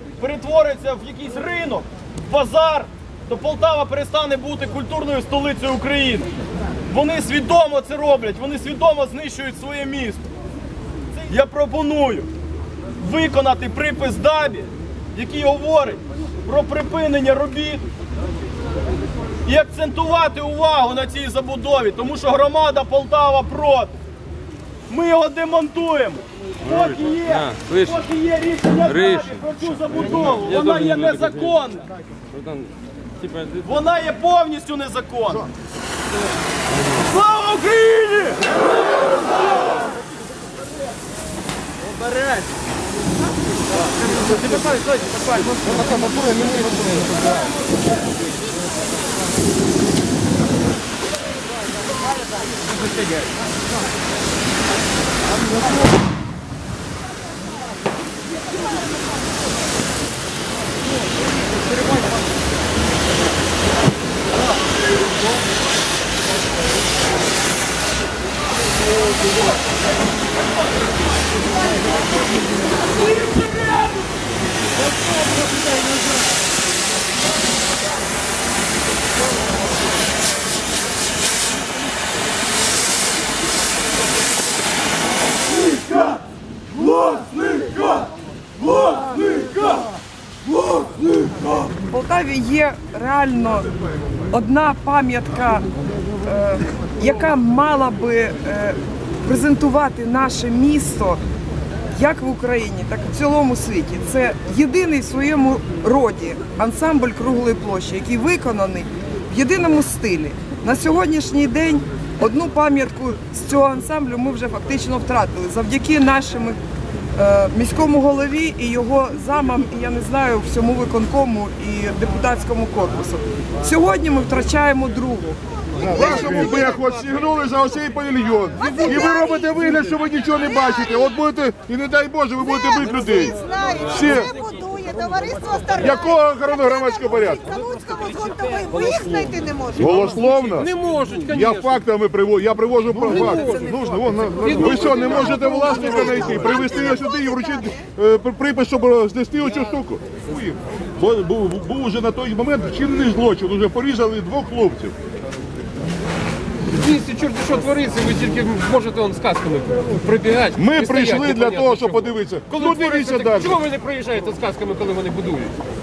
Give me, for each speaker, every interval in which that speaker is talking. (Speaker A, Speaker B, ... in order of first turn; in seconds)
Speaker A: 0.2-6.3, 6.9-10.3, 11.2-12.3, 13.0-17.9, 19.4-23.9, 24.9-31.9, 33.6-35.5, 37.0-38.6, 41.8-42.5, 44.1-46.3
Speaker B: 33.2-33.5, 133.4-135.8, 137.5-139.9
Speaker C: 91.9-93.7, 94.3-95.7, 96.2-101.2, 101.9-116.6, 117.2-126.8
Speaker D: 125.8-134.4, 135.7-137.6, 139.8-140.7, 141.3-154.9, 160.6-163.6
Speaker E: 140.3-141.8, 143.0-143.8, 144.4-146.1, 156.7-165.6